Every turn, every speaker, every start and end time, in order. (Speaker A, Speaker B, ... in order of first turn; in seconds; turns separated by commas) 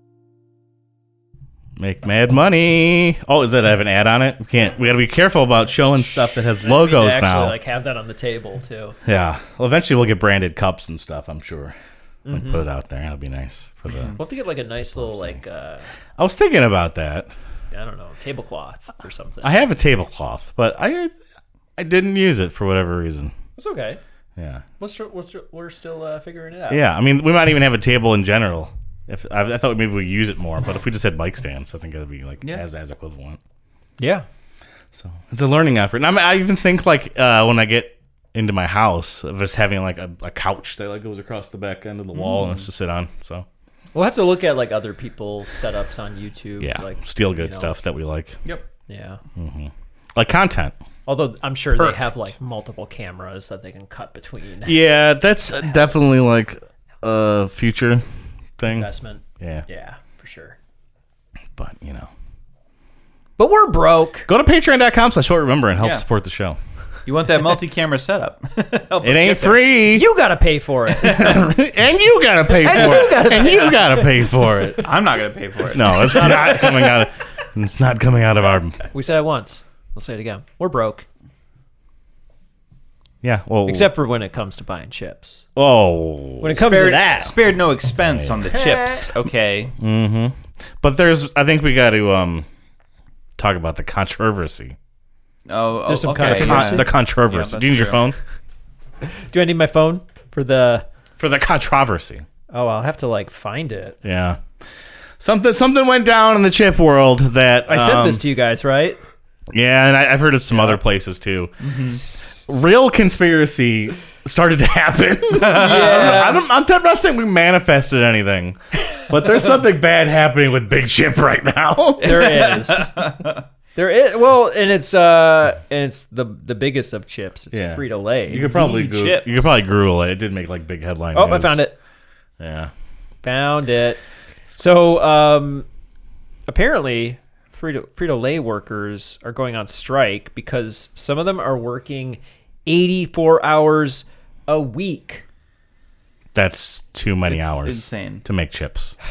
Speaker A: 1.8-7.6, Speaker B: 6.4-9.0, Speaker A: 9.0-11.7, Speaker B: 12.2-12.7, Speaker A: 12.3-14.2, Speaker C: 13.9-14.2, Speaker B: 14.2-15.8, Speaker A: 14.9-15.4, Speaker A: 16.2-17.3, Speaker B: 17.7-19.6, Speaker A: 19.4-21.1, Speaker A: 21.8-23.3, Speaker B: 23.6-24.0, Speaker A: 24.4-24.6, Speaker B: 24.8-26.8, Speaker A: 26.7-33.4, Speaker B: 34.0-34.2, Speaker A: 34.9-43.5, Speaker B: 43.9-47.7, Speaker A: 46.6-48.4, Speaker B: 48.9-49.2, Speaker A: 49.4-50.7, Speaker B: 51.0-54.8, Speaker A: 54.6-58.0, Speaker B: 55.6-56.2, Speaker A: 58.6-58.9, Speaker B: 58.6-60.5, Speaker A: 59.4-59.6, Speaker A: 61.5-62.1, Speaker B: 63.4-64.3, Speaker A: 64.3-66.6, Speaker C: 65.8-66.0, Speaker C: 67.0-69.6, Speaker A: 69.0-70.1, Speaker B: 69.9-71.5, Speaker A: 71.0-74.9, Speaker B: 72.5-74.7, Speaker C: 74.8-76.5, Speaker A: 75.7-78.8, Speaker B: 75.8-76.9, Speaker B: 78.9-81.0, Speaker A: 83.2-83.9, Speaker B: 83.6-85.5, Speaker A: 85.5-86.6, Speaker B: 86.4-87.3, Speaker C: 86.5-89.7, Speaker B: 88.4-89.1, Speaker A: 89.8-92.5, Speaker A: 93.4-94.8, Speaker C: 95.5-98.0, Speaker B: 95.8-96.9, Speaker A: 96.2-98.2, Speaker B: 99.3-100.8, Speaker A: 101.2-102.2, Speaker B: 102.5-104.0, Speaker A: 104.0-104.4, Speaker A: 105.2-108.2, Speaker B: 107.7-109.0, Speaker A: 109.5-111.5, Speaker C: 111.6-112.0, Speaker B: 112.1-112.5, Speaker A: 112.5-122.4, Speaker C: 115.3-116.2, Speaker B: 115.4-116.4, Speaker B: 122.0-122.9, Speaker C: 122.0-123.4, Speaker B: 123.7-128.5, Speaker A: 127.5-131.7, Speaker C: 128.3-129.6, Speaker B: 131.1-131.7, Speaker A: 132.4-132.7, Speaker B: 133.2-134.0, Speaker B: 134.6-135.7, Speaker B: 136.5-145.2, Speaker A: 146.3-148.9, Speaker C: 147.2-148.2